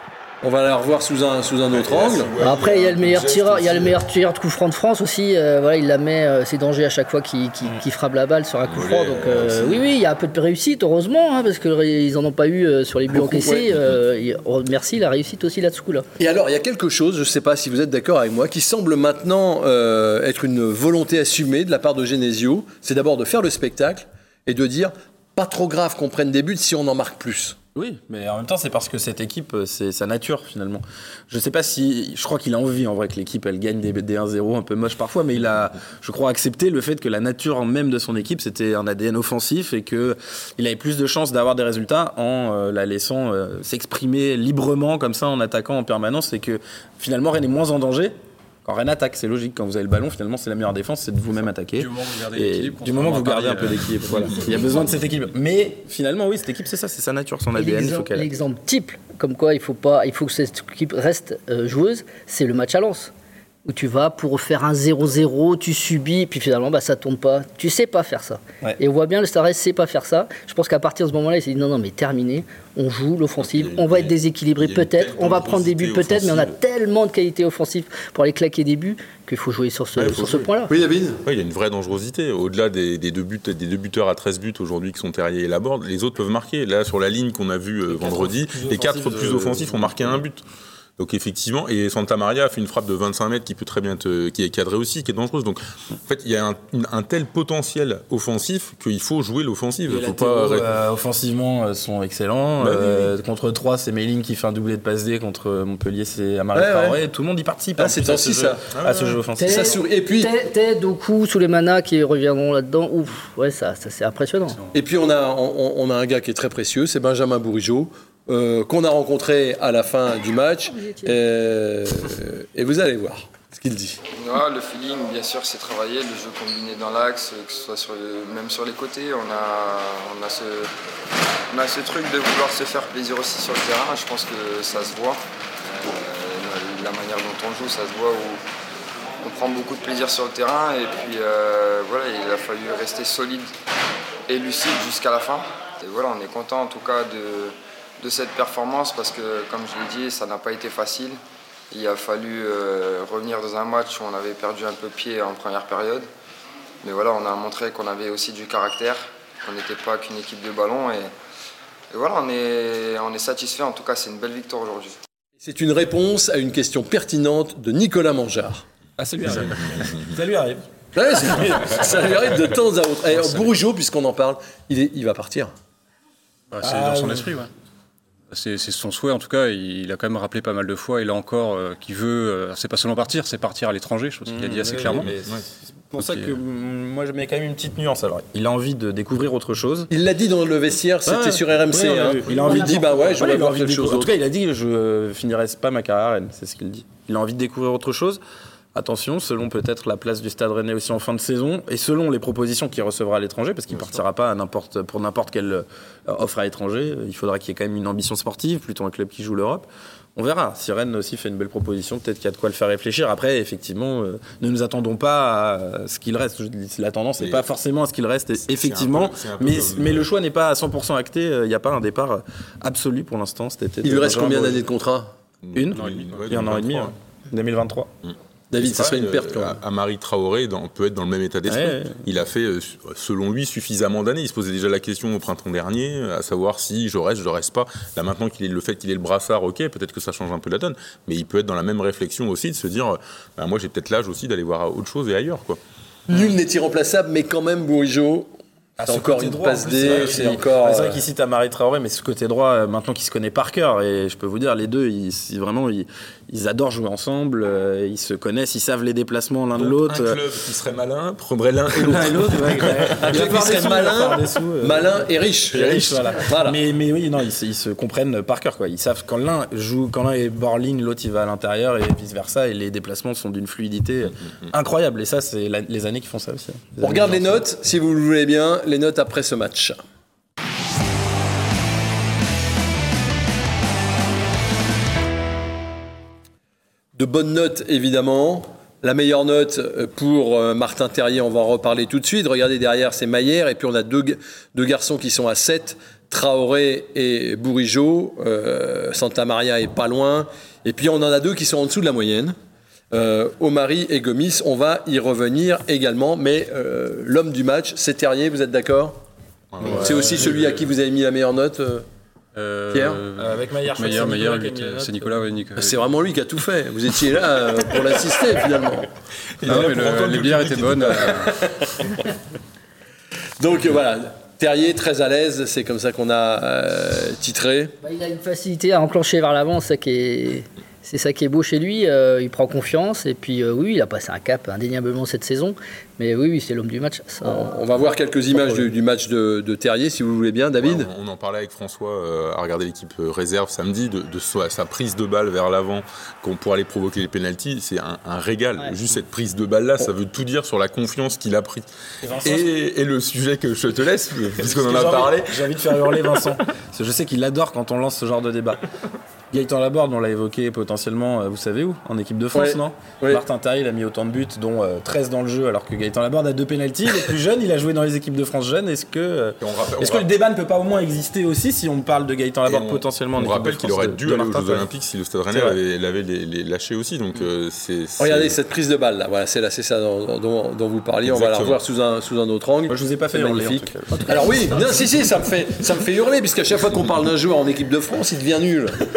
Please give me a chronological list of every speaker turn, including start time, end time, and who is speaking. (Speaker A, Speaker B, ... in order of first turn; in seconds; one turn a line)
Speaker A: 0.4-2.3
Speaker B: 1.7-4.0
Speaker C: 2.4-16.1
Speaker B: 8.7-9.8
Speaker A: 13.1-13.7
Speaker A: 16.2-27.6
Speaker D: 27.7-58.3
Speaker E: 51.7-54.6
Speaker C: 57.5-63.1
Speaker C: 63.6-80.7
Speaker B: 73.4-76.5
Speaker B: 80.0-80.5
Speaker A: 80.7-81.2
Speaker B: 81.2-90.4
Speaker D: 87.9-90.2
Speaker B: 91.0-100.7
Speaker D: 99.8-109.8
Speaker B: 102.6-103.1
Speaker A: 106.5-107.0
Speaker A: 107.8-108.6
Speaker B: 108.7-109.2
Speaker C: 109.4-114.6
Speaker A: 109.5-110.3
Speaker A: 114.7-124.0
Speaker C: 120.7-121.2
Speaker F: 124.2-130.7
Speaker F: 131.5-138.4
Speaker F: 139.2-143.5
Speaker F: 144.3-151.2
Speaker F: 151.7-156.1
Speaker F: 156.8-161.1
Speaker F: 161.9-165.0
Speaker A: 165.4-168.7
Speaker D: 169.0-170.6
Speaker B: 169.3-170.1
Speaker A: 170.9-175.5
Speaker E: 176.5-177.5
Speaker D: 176.6-177.4
Speaker E: 178.3-185.1
Speaker D: 184.2-189.9
Speaker B: 184.8-185.4
Speaker E: 186.0-186.3
Speaker A: 189.9-194.1
Speaker D: 191.1-198.2
Speaker C: 192.3-193.1
Speaker D: 198.7-224.6
Speaker B: 217.2-217.4
Speaker B: 218.5-220.1
Speaker A: 223.8-225.1
Speaker B: 225.4-226.9
Speaker D: 225.5-227.9
Speaker E: 225.7-226.3
Speaker B: 228.1-245.6
Speaker A: 228.5-229.6
Speaker D: 231.5-232.0
Speaker A: 246.1-251.0
Speaker D: 248.8-260.2
Speaker B: 249.8-250.3
Speaker B: 259.6-263.3
Speaker D: 261.7-277.4
Speaker A: 263.0-266.6
Speaker A: 276.8-279.8
Speaker A: 286.9-302.4
Speaker A: 302.9-309.0
Speaker B: 309.5-310.6
Speaker D: 309.6-310.4
Speaker A: 309.6-311.9
Speaker E: 312.3-315.9
Speaker A: 312.7-313.0
Speaker D: 313.1-315.2
Speaker A: 315.5-318.9
Speaker B: 319.4-321.3
Speaker E: 319.4-321.4
Speaker A: 321.2-322.0
Speaker A: 323.4-327.7
Speaker C: 327.8-337.5
Speaker A: 337.2-340.9
Speaker B: 340.6-351.7
Speaker D: 352.0-352.5
Speaker B: 352.2-355.4
Speaker D: 354.4-358.7
Speaker D: 359.3-374.7
Speaker A: 362.3-363.2
Speaker B: 369.4-370.1
Speaker B: 372.4-378.4
Speaker D: 375.3-375.6
Speaker A: 378.0-388.8
Speaker B: 381.0-381.6
Speaker D: 382.7-384.7
Speaker C: 383.9-384.2